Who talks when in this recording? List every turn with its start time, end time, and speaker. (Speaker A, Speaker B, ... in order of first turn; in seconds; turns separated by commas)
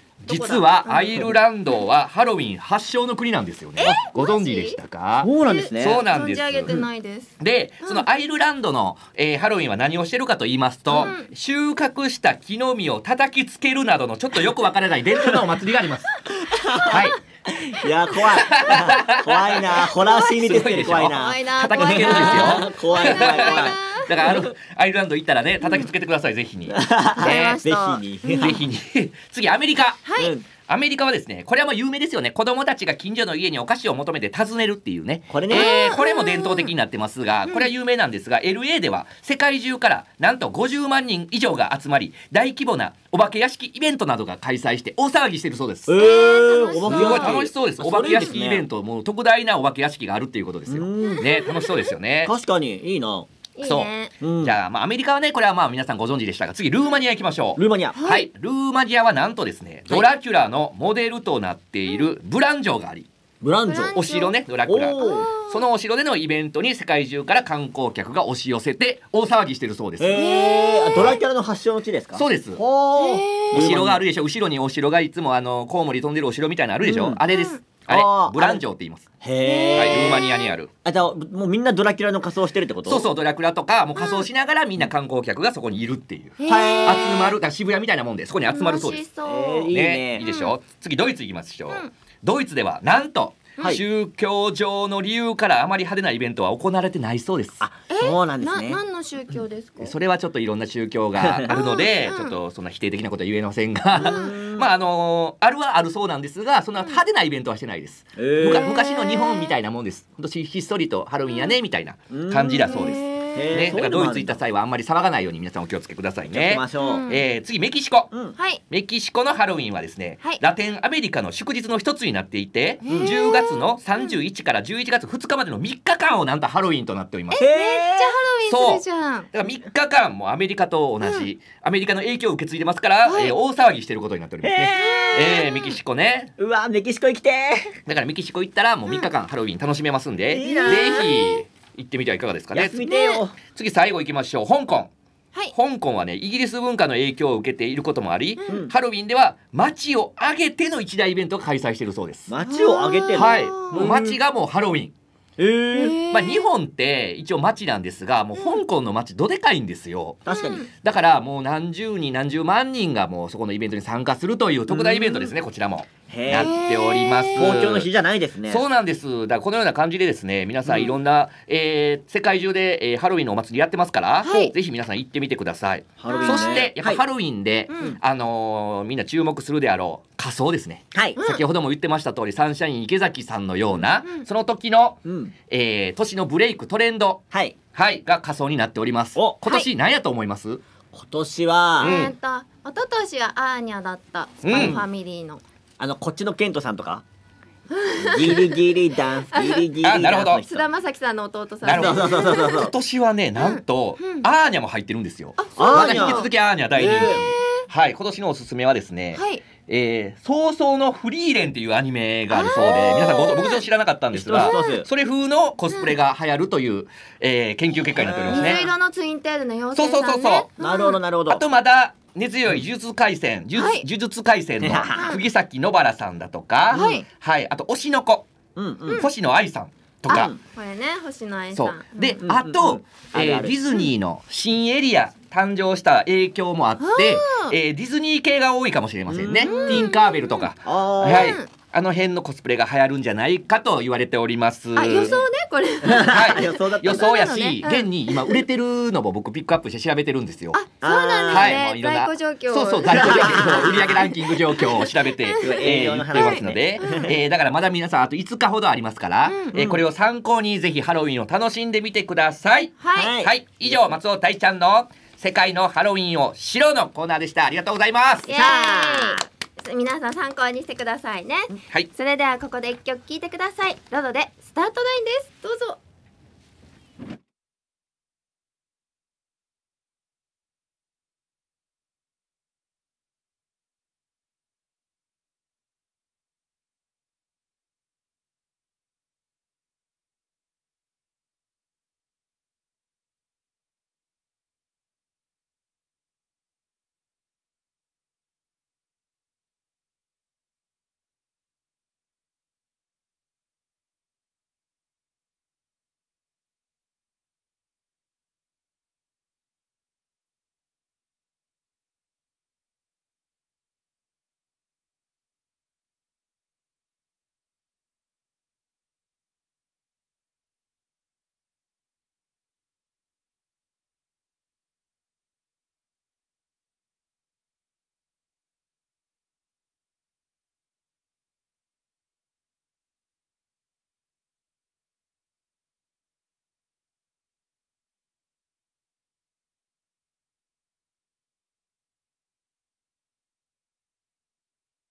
Speaker A: 0.2-6.7, Speaker B: 0.3-1.3, Speaker B: 3.8-4.8, Speaker C: 5.2-6.0, Speaker B: 5.4-8.1, Speaker A: 7.4-16.2, Speaker B: 10.9-11.3, Speaker C: 16.5-24.5, Speaker B: 16.8-17.0, Speaker A: 16.9-17.2, Speaker A: 18.4-19.6, Speaker B: 19.7-24.1, Speaker A: 20.4-27.6, Speaker C: 26.7-28.6, Speaker B: 27.2-28.6, Speaker A: 28.4-30.1, Speaker B: 30.0-30.3, Speaker C: 30.2-30.4, Speaker A: 30.6-46.0, Speaker C: 35.3-35.7, Speaker B: 35.5-36.7, Speaker C: 45.9-48.6, Speaker B: 45.9-47.4, Speaker A: 46.8-52.3, Speaker C: 50.7-51.2, Speaker B: 51.1-51.7, Speaker C: 52.2-53.3, Speaker B: 53.5-54.1, Speaker A: 53.6-53.9, Speaker C: 54.2-54.5, Speaker A: 54.4-63.1, Speaker C: 57.6-58.0, Speaker B: 57.9-58.3, Speaker C: 63.4-64.0, Speaker B: 63.7-64.4, Speaker A: 63.9-70.2, Speaker C: 64.7-65.3, Speaker B: 65.0-65.6, Speaker C: 70.0-74.0, Speaker B: 70.1-71.1, Speaker A: 72.2-72.6, Speaker B: 73.0-73.7, Speaker A: 73.5-79.1, Speaker C: 76.8-77.2, Speaker B: 77.3-77.6, Speaker C: 77.9-78.6, Speaker C: 79.2-80.3, Speaker B: 79.4-80.5, Speaker A: 79.7-80.7, Speaker C: 80.8-83.1, Speaker A: 82.8-89.0, Speaker B: 84.0-84.2, Speaker B: 86.4-87.3, Speaker C: 86.5-87.1, Speaker B: 88.5-90.5, Speaker C: 89.2-90.2, Speaker A: 89.7-97.6, Speaker C: 97.6-98.8, Speaker B: 97.9-99.9, Speaker A: 99.8-118.1, Speaker C: 101.2-101.5, Speaker B: 101.5-102.3, Speaker B: 104.0-104.3, Speaker C: 104.0-104.7, Speaker C: 108.2-108.7, Speaker B: 108.4-109.5, Speaker B: 111.3-111.5, Speaker C: 112.1-114.3, Speaker B: 112.6-113.7, Speaker C: 116.3-117.0, Speaker B: 116.8-117.2, Speaker B: 118.3-118.6, Speaker A: 118.7-127.4, Speaker B: 122.8-124.1, Speaker C: 122.8-123.1, Speaker B: 127.3-129.3, Speaker C: 127.4-128.1, Speaker A: 128.5-136.3, Speaker B: 131.0-131.3, Speaker B: 133.1-133.3, Speaker C: 134.4-135.3, Speaker B: 134.6-135.8, Speaker C: 136.4-137.8, Speaker A: 137.9-142.8, Speaker C: 140.3-141.1, Speaker B: 140.3-141.4, Speaker C: 142.5-143.3, Speaker B: 142.8-143.2, Speaker A: 143.5-144.9, Speaker A: 145.5-152.3, Speaker C: 148.5-148.7, Speaker C: 152.3-154.2, Speaker B: 152.4-153.9, Speaker A: 153.1-154.9, Speaker C: 155.4-156.0, Speaker B: 155.7-156.5, Speaker A: 156.1-167.9, Speaker C: 160.2-160.6, Speaker B: 160.3-160.7, Speaker C: 164.7-165.2, Speaker C: 166.1-166.6, Speaker B: 166.3-167.5, Speaker C: 167.3-168.6, Speaker A: 168.5-187.2, Speaker B: 174.2-174.5, Speaker C: 176.0-177.0, Speaker B: 176.1-176.6, Speaker B: 177.7-178.0, Speaker B: 181.2-181.4, Speaker C: 185.0-185.3, Speaker C: 187.3-187.6, Speaker A: 187.7-190.6, Speaker C: 189.2-189.7, Speaker C: 190.9-192.0, Speaker B: 191.8-195.4, Speaker A: 191.8-192.1, Speaker A: 194.4-194.8, Speaker C: 194.5-194.8, Speaker C: 195.8-197.0, Speaker B: 197.7-198.6, Speaker C: 198.0-200.7, Speaker B: 199.3-199.6, Speaker A: 199.8-200.4, Speaker B: 200.4-202.7, Speaker A: 201.6-218.7, Speaker C: 201.7-202.7, Speaker B: 203.3-204.3, Speaker B: 205.4-207.6, Speaker C: 205.6-207.2, Speaker B: 209.1-209.4, Speaker B: 212.3-213.6, Speaker C: 212.6-213.2, Speaker C: 214.1-214.8, Speaker B: 214.3-214.8, Speaker C: 217.9-218.7, Speaker B: 218.3-221.0, Speaker A: 219.7-220.5, Speaker C: 220.6-221.4, Speaker A: 221.3-228.3, Speaker B: 223.5-223.8, Speaker C: 224.6-225.1, Speaker C: 226.7-227.0, Speaker B: 226.7-227.1, Speaker C: 228.6-229.0, Speaker A: 228.9-230.3, Speaker C: 230.1-230.4, Speaker B: 230.1-232.2, Speaker A: 231.5-245.2, Speaker C: 232.2-233.6, Speaker B: 236.8-237.5, Speaker C: 239.1-239.9, Speaker B: 239.4-240.5, Speaker C: 240.6-241.4, Speaker B: 241.0-241.5, Speaker B: 244.7-248.4, Speaker C: 245.8-247.1, Speaker A: 246.1-250.6, Speaker B: 250.5-257.1, Speaker C: 250.8-251.6, Speaker A: 251.3-268.3, Speaker C: 252.9-254.0, Speaker C: 255.4-257.1, Speaker B: 259.3-259.5, Speaker C: 259.5-259.8, Speaker B: 262.8-263.1, Speaker C: 262.9-263.8, Speaker B: 268.3-275.8, Speaker C: 268.3-269.2